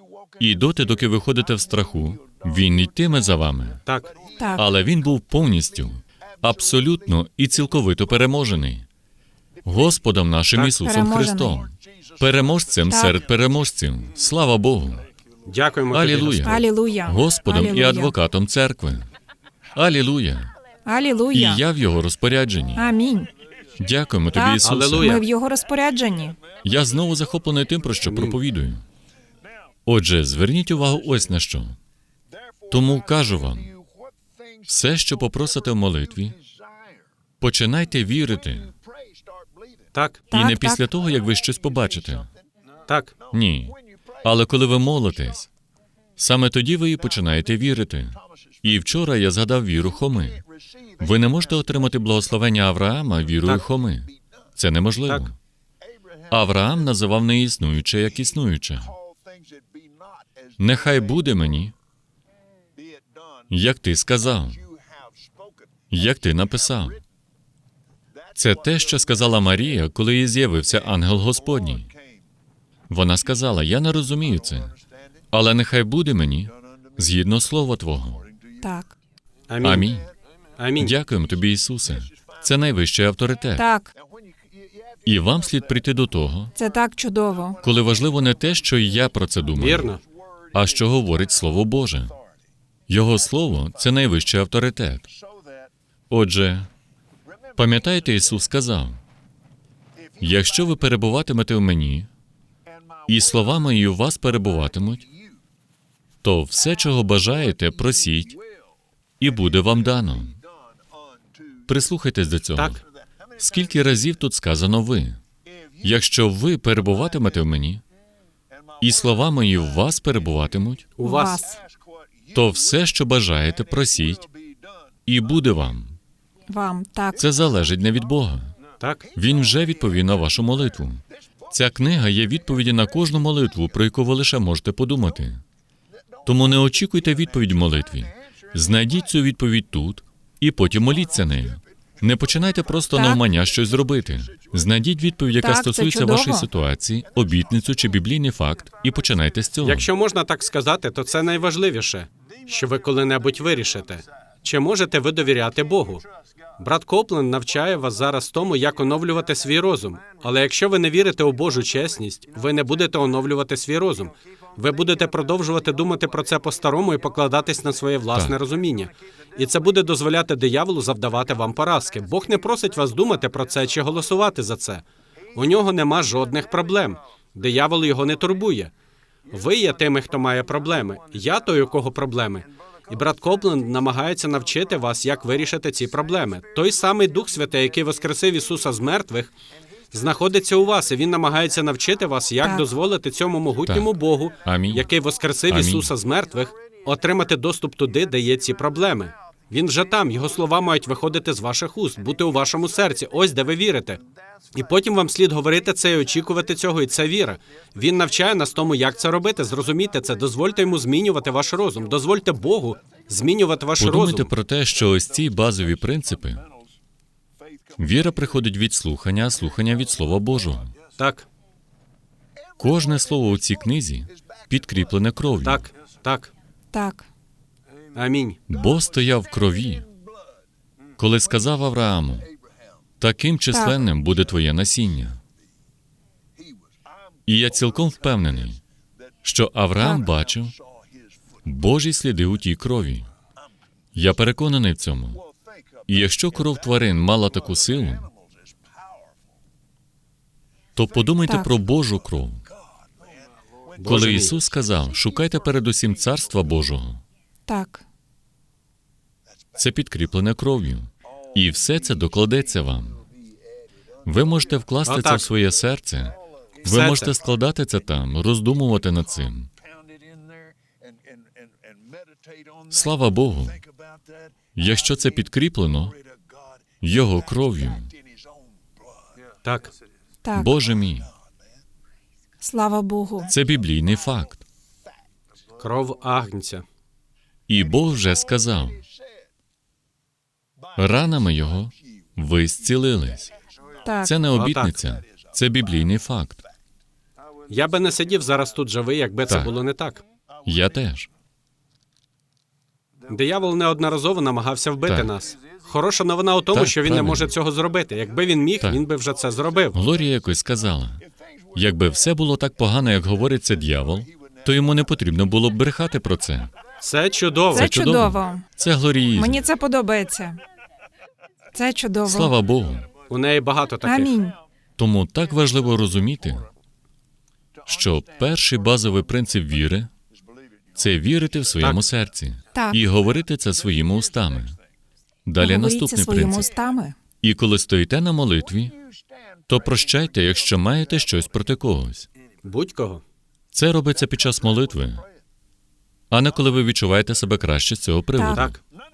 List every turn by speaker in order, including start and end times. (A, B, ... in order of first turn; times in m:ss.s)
0:00.4-0:03.8 A
0:03.9-0:04.1 B
0:04.4-0:04.7 C
0:04.6-0:08.9 A
0:09.6-0:15.0 A
0:10.8-0:11.6 C
0:12.9-0:13.2 C
0:15.5-0:16.6 B
0:15.9-0:19.1 A
0:16.4-0:18.1 C
0:19.8-0:20.5 A
0:20.9-0:21.6 C
0:21.3-0:22.9 A
0:22.8-0:23.3 C
0:23.8-0:25.2 A
0:24.3-0:26.4 C
0:24.6-0:25.2 B
0:26.6-0:28.8 A
0:28.0-0:28.4 B
0:29.9-0:31.8 A
0:32.7-0:33.8 A
0:34.6-0:36.4 A
0:37.4-0:38.7 A
0:39.9-0:40.2 B
0:40.3-0:40.8 C
0:40.3-0:42.3 A
0:42.9-0:43.1 B
0:43.3-0:45.5 A
0:46.2-0:50.4 A
0:51.0-0:55.4 A
0:56.3-0:59.0 A
1:00.6-1:01.7 A
1:03.5-1:04.7 A
1:05.9-1:07.0 A
1:08.4-1:11.9 A
1:12.9-1:14.8 A
1:15.3-1:18.3 A
1:18.6-1:18.9 C
1:19.5-1:19.9 B
1:19.6-1:20.1 A
1:20.6-1:20.9 B
1:20.8-1:23.6 A
1:23.6-1:23.9 C
1:25.0-1:26.5 A
1:26.6-1:27.6 C
1:27.6-1:30.0 A
1:29.6-1:30.0 B
1:30.5-1:32.1 A
1:32.9-1:35.1 A
1:36.1-1:36.7 A
1:37.6-1:39.0 A
1:40.2-1:42.1 A
1:43.1-1:45.1 A
1:46.2-1:48.4 A
1:49.2-1:50.4 A
1:51.6-1:52.8 A
1:52.6-1:52.8 B
1:53.4-1:55.2 A
1:55.8-1:57.8 A
1:58.8-2:00.9 A
2:01.0-2:01.4 B
2:01.0-2:01.6 C
2:02.3-2:04.3 A
2:05.1-2:06.0 A
2:06.5-2:07.2 C
2:07.2-2:08.5 A
2:08.8-2:09.1 B
2:09.2-2:15.4 A
2:16.2-2:29.9 A
2:22.9-2:23.2 C
2:25.4-2:26.5 C
2:29.6-2:36.0 B
2:36.6-2:58.7 B
2:59.3-3:09.3 B
3:09.9-3:24.0 B
3:12.4-3:12.7 C
3:14.4-3:14.9 A
3:15.5-3:15.9 A
3:24.5-3:34.3 B
3:33.8-3:36.4 A
3:37.8-3:40.7 A
3:41.0-3:41.3 B
3:42.6-3:45.7 A
3:45.4-3:46.3 B
3:46.7-3:47.1 C
3:47.9-3:48.4 B
3:48.5-3:49.9 A
3:51.0-3:52.3 A
3:53.0-3:55.2 A
3:53.5-3:53.8 C
3:57.2-3:58.6 A
3:59.2-4:00.5 A
3:59.8-4:00.1 C
4:01.4-4:03.1 A
4:04.0-4:05.2 A
4:05.9-4:08.1 A
4:10.8-4:12.4 A
4:13.8-4:14.4 B
4:13.8-4:17.0 A
4:17.5-4:17.8 C
4:19.5-4:23.0 A
4:24.0-4:29.5 A
4:24.9-4:25.2 B
4:26.6-4:27.1 B
4:32.7-4:33.6 A
4:34.5-4:36.0 A
4:36.8-4:37.9 A
4:39.4-4:39.7 B
4:40.2-4:40.6 C
4:40.3-4:41.1 A
4:42.4-4:43.3 C
4:43.3-4:44.4 A
4:45.6-4:46.6 B
4:47.5-4:48.8 A
4:50.8-4:53.3 A
4:53.8-4:54.1 C
4:54.0-4:56.4 A
4:54.4-4:54.8 B
4:57.5-5:00.0 B
5:00.4-5:01.1 A
5:03.1-5:09.8 B
5:04.9-5:05.1 A
5:06.5-5:07.4 A
5:09.7-5:16.5 A
5:16.8-5:17.8 B
5:17.5-5:18.4 C
5:17.5-5:19.4 A
5:19.2-5:20.4 C
5:21.5-5:22.3 C
5:22.0-5:22.9 A
5:23.1-5:24.1 B
5:23.8-5:24.4 C
5:24.8-5:26.5 A
5:27.6-5:29.9 A
5:30.8-5:34.6 A
5:32.5-5:32.8 C
5:35.2-5:36.5 A
5:35.4-5:37.0 C
5:37.2-5:38.8 A
5:39.5-5:42.1 A
5:42.4-5:43.0 B
5:43.5-5:45.0 A
5:46.1-5:48.6 A
5:48.2-5:48.4 C
5:48.3-5:48.6 B